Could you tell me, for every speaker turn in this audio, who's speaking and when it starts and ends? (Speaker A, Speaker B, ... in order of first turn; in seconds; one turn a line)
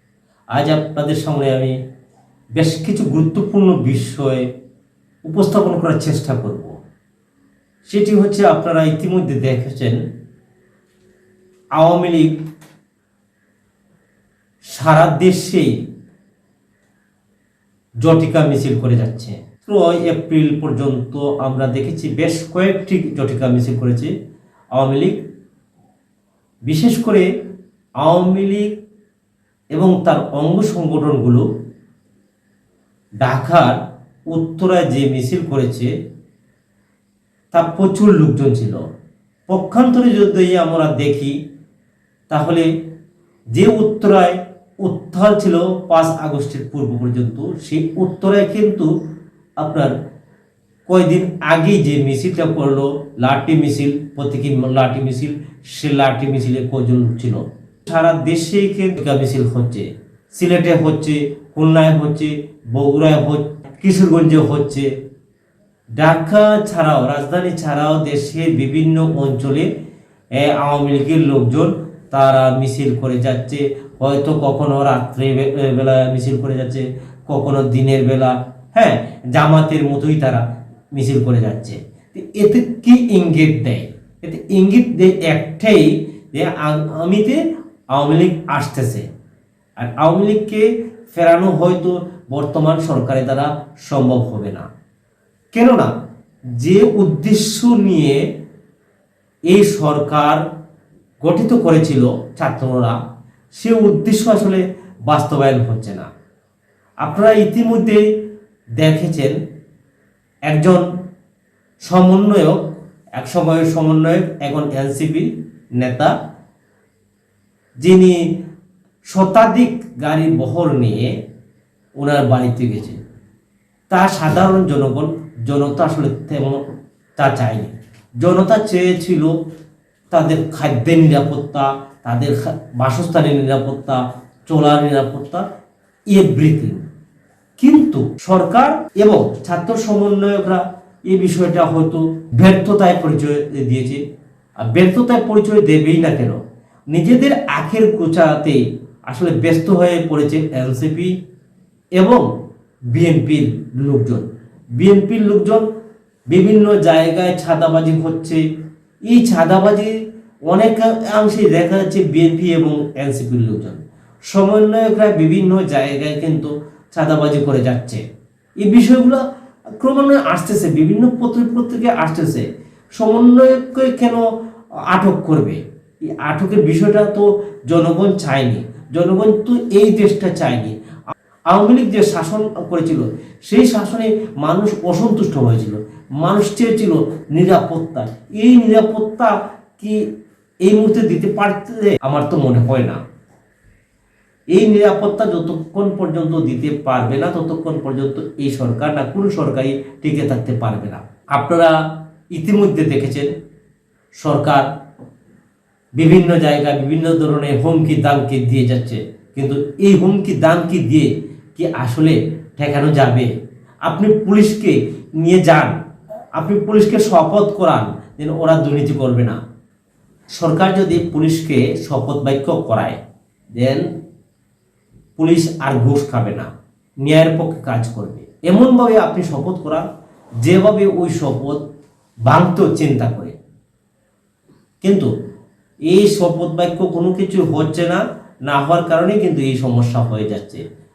Speaker A: 0.5-1.7
Speaker A: 2.5-4.4
Speaker A: 5.2-6.7
Speaker A: 7.9-10.0
Speaker A: 11.8-12.3
Speaker A: 14.7-15.7
Speaker A: 18.0-24.1
Speaker A: 24.8-25.1
Speaker A: 26.7-27.3
Speaker A: 28.0-28.7
Speaker A: 29.7-31.5
Speaker A: 33.2-33.8
Speaker A: 34.3-35.9
Speaker A: 37.5-38.8
Speaker A: 39.5-41.3
Speaker A: 42.3-42.7
Speaker A: 43.5-48.9
Speaker A: 49.6-49.9
Speaker A: 50.9-59.9
Speaker A: 60.4-64.9
Speaker A: 66.0-69.7
Speaker A: 70.4-80.4
Speaker A: 80.9-87.4
Speaker A: 87.9-89.0
Speaker A: 89.8-94.7
Speaker A: 95.5-95.9
Speaker A: 96.6-98.2
Speaker A: 99.5-100.4
Speaker A: 101.2-103.0
Speaker A: 103.6-106.1
Speaker A: 107.0-108.0
Speaker A: 108.8-109.3
Speaker A: 110.5-110.8
Speaker A: 111.8-112.6
Speaker A: 113.2-115.3
Speaker A: 115.8-116.1
Speaker A: 117.8-118.2
Speaker A: 119.1-121.1
Speaker A: 122.0-123.0
Speaker A: 123.9-126.6
Speaker A: 127.2-129.3
Speaker A: 130.1-135.4
Speaker A: 136.1-136.8
Speaker A: 137.6-144.0
Speaker A: 144.6-146.4
Speaker A: 146.9-151.1
Speaker A: 152.0-152.2
Speaker A: 152.9-154.2
Speaker A: 154.8-155.6
Speaker A: 156.3-158.4
Speaker A: 159.1-159.9
Speaker A: 160.5-163.8
Speaker A: 164.3-168.0
Speaker A: 168.6-169.2
Speaker A: 169.8-172.4
Speaker A: 173.0-174.2
Speaker A: 174.9-175.6
Speaker A: 176.2-180.7
Speaker A: 181.5-190.0
Speaker A: 190.6-193.0
Speaker A: 194.5-201.8
Speaker A: 202.3-203.3
Speaker A: 204.2-204.7
Speaker A: 206.0-213.3
Speaker A: 213.8-215.7
Speaker A: 216.4-219.4
Speaker A: 220.4-223.0
Speaker A: 223.6-223.8
Speaker A: 225.2-226.5
Speaker A: 227.0-229.8
Speaker A: 230.4-231.6
Speaker A: 232.3-233.3
Speaker A: 234.8-235.1
Speaker A: 235.9-240.6